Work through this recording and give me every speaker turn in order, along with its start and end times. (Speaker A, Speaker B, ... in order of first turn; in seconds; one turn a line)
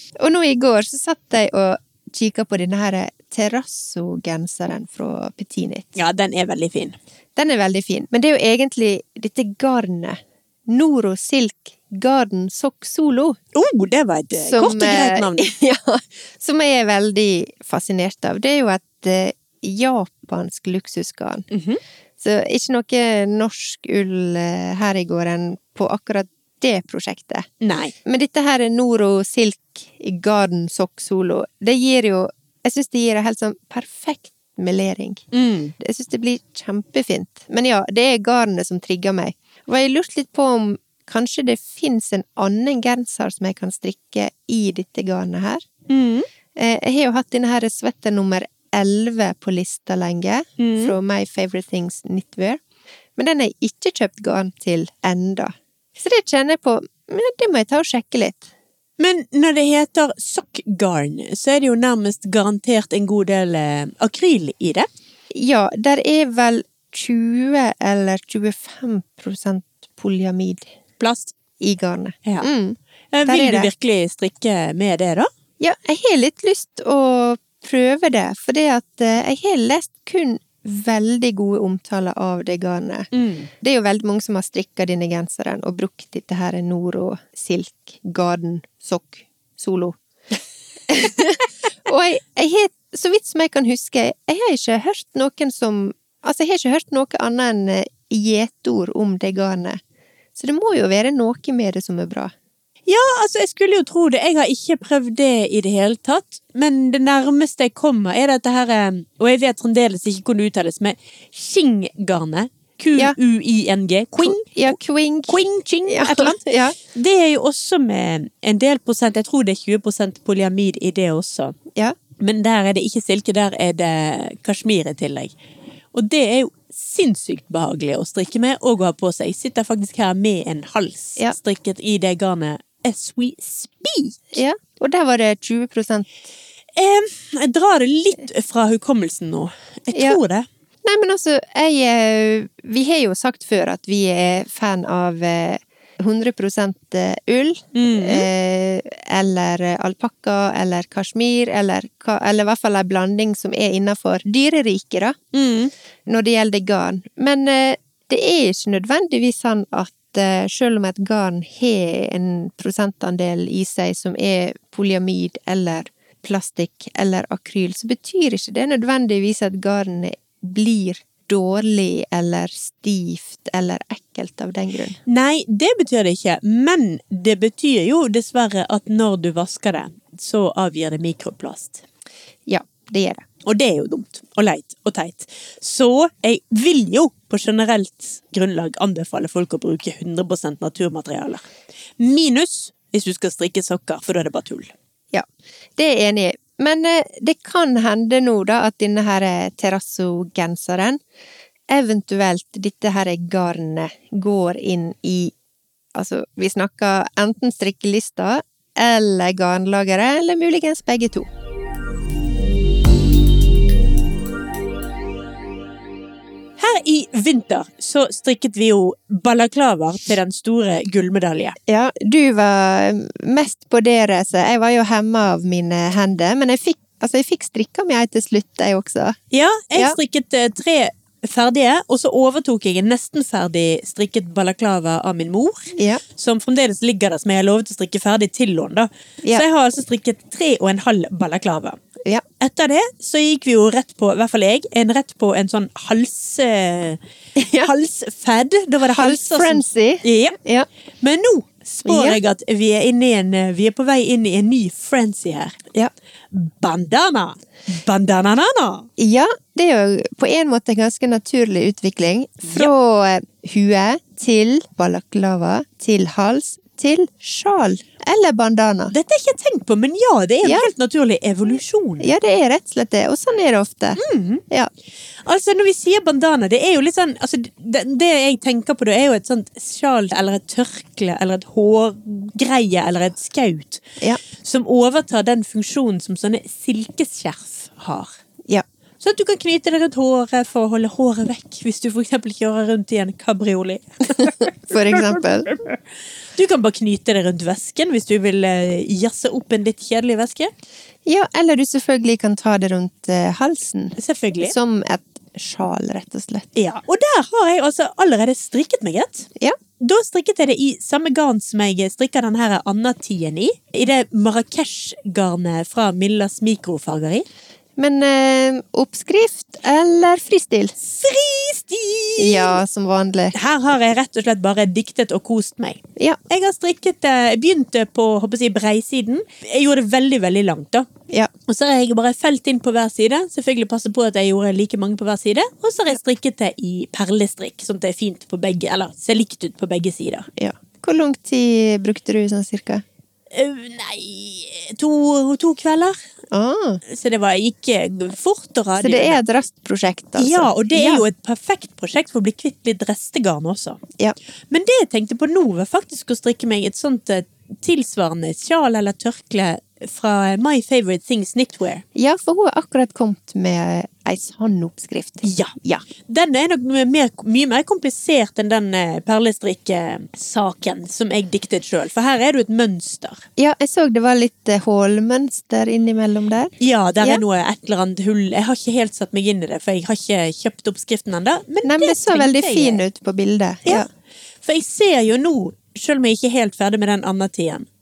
Speaker A: 0.2-6.0
Speaker B: 6.0-7.0
Speaker A: 7.3-13.4
Speaker B: 13.5-15.5
Speaker A: 14.3-21.5
Speaker B: 21.5-21.8
Speaker A: 22.2-27.5
Speaker B: 27.6-27.9
Speaker A: 28.0-35.2
Speaker B: 35.3-35.7
Speaker A: 35.8-45.7
Speaker B: 45.9-46.3
Speaker A: 46.5-52.6
Speaker B: 50.6-50.9
Speaker A: 53.2-58.5
Speaker B: 59.0-64.9
Speaker A: 65.3-70.7
Speaker B: 71.0-71.3
Speaker A: 71.6-73.7
Speaker B: 73.1-75.3
Speaker A: 75.6-90.0
Speaker B: 83.1-83.5
Speaker A: 90.9-99.8
Speaker A: 100.3-102.3
Speaker B: 102.8-114.8
Speaker A: 114.2-116.8
Speaker B: 115.3-121.5
Speaker B: 122.2-125.3
Speaker B: 125.9-134.3
Speaker A: 134.3-136.1
Speaker B: 136.7-140.4
Speaker A: 139.9-140.2
Speaker A: 140.8-155.2
Speaker B: 147.7-148.3
Speaker B: 155.3-155.7
Speaker A: 156.1-175.0
Speaker B: 175.1-181.8
Speaker A: 182.5-183.2
Speaker B: 183.4-191.4
Speaker B: 192.0-194.7
Speaker A: 195.8-201.0
Speaker A: 201.7-205.3
Speaker A: 205.9-211.3
Speaker B: 216.6-221.6
Speaker A: 221.7-229.2
Speaker B: 229.3-241.8
Speaker A: 235.8-236.0
Speaker B: 242.4-247.0
Speaker A: 247.3-247.7
Speaker B: 247.6-250.4
Speaker A: 248.9-250.7
Speaker B: 251.0-255.6
Speaker A: 251.8-252.2
Speaker B: 256.3-258.9
Speaker A: 259.0-268.9
Speaker B: 268.9-272.1
Speaker A: 270.4-270.7
Speaker A: 272.0-274.7
Speaker B: 274.0-274.4
Speaker B: 275.2-288.1
Speaker B: 289.0-295.8
Speaker A: 294.2-295.5
Speaker B: 296.3-300.5
Speaker A: 301.1-306.5
Speaker B: 304.0-304.5
Speaker B: 306.5-309.3
Speaker B: 309.8-317.2
Speaker A: 317.8-320.7
Speaker B: 320.8-322.6
Speaker A: 322.2-323.4
Speaker B: 323.3-330.9
Speaker B: 331.5-340.3
Speaker A: 340.4-342.8
Speaker B: 343.3-345.9
Speaker A: 346.3-346.8
Speaker B: 346.9-349.2
Speaker A: 348.8-351.0
Speaker B: 350.2-353.8
Speaker B: 354.5-361.8
Speaker A: 361.9-365.8
Speaker B: 365.2-365.5
Speaker B: 366.1-373.2
Speaker A: 373.4-377.2
Speaker B: 376.6-382.8
Speaker A: 381.6-383.9
Speaker B: 384.4-387.7